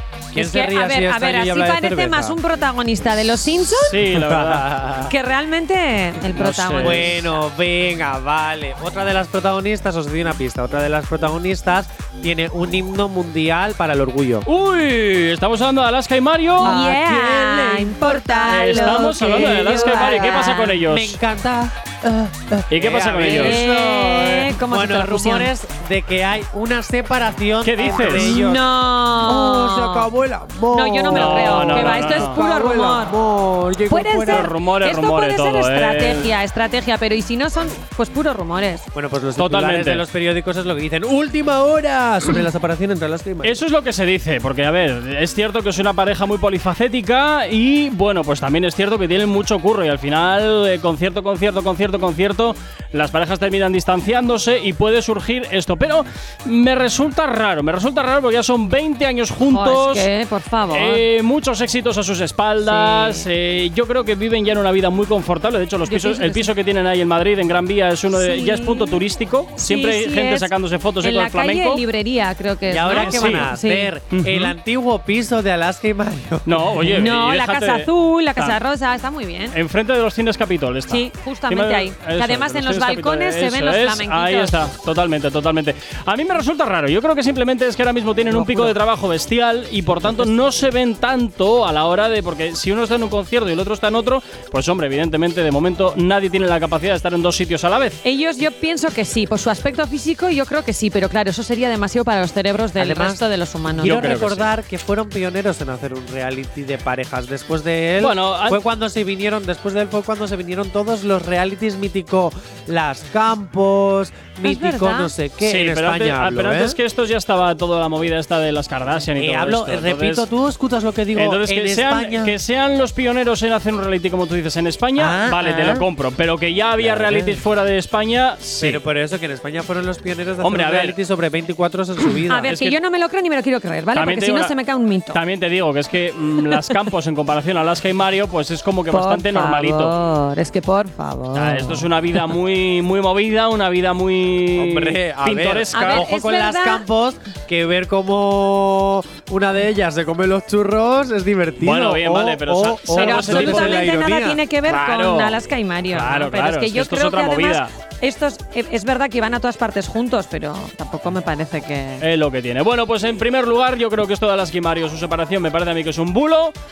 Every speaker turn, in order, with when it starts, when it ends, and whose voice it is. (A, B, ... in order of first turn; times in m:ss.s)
0:00.3-0:02.4 A
0:00.4-0:03.9 B
0:03.6-0:05.1 A
0:03.8-0:04.9 C
0:05.1-0:07.2 B
0:06.4-0:07.2 C
0:06.8-0:14.5 A
0:14.4-0:16.8 C
0:16.6-0:34.5 A
0:16.6-0:20.8 B
0:18.5-0:21.2 C
0:22.7-0:23.6 C
0:23.3-0:25.5 B
0:27.6-0:28.4 C
0:28.1-0:30.1 B
0:30.7-0:33.2 B
0:31.1-0:32.4 C
0:33.9-0:38.9 B
0:34.3-0:36.3 C
0:38.9-0:43.6 A
0:39.4-0:40.0 C
0:43.4-1:00.1 C
0:59.5-1:01.0 B
1:00.7-1:11.8 C
1:02.6-1:03.3 B
1:05.9-1:06.5 B
1:08.1-1:09.0 B
1:09.6-1:10.5 B
1:11.0-1:13.9 B
1:12.7-1:16.7 A
1:12.9-1:13.5 C
1:14.1-1:14.5 C
1:16.4-1:18.6 C
1:17.0-1:19.6 B
1:19.5-1:38.0 C
1:20.9-1:24.6 B
1:28.3-1:28.7 A
1:38.0-1:44.0 B
1:42.8-1:43.2 A
1:43.8-1:56.8 A
1:43.8-1:44.5 C
1:48.0-1:48.6 C
1:54.4-1:55.1 B
1:55.4-2:00.3 C
1:59.1-2:02.3 A
2:01.1-2:08.8 C
2:05.0-2:05.8 A
2:06.8-2:07.4 A
2:08.6-2:12.6 A
2:10.4-2:11.0 C
2:12.3-2:15.2 B
2:12.5-2:12.8 C
2:13.9-2:14.6 C
2:15.1-2:19.9 C
2:18.9-2:21.9 B
2:21.3-2:26.0 C
2:24.6-2:34.4 A
2:25.7-2:26.9 B
2:31.6-2:33.9 C
2:33.0-2:42.0 B
2:34.6-2:35.4 C
2:35.9-2:37.7 C
2:42.0-2:46.6 C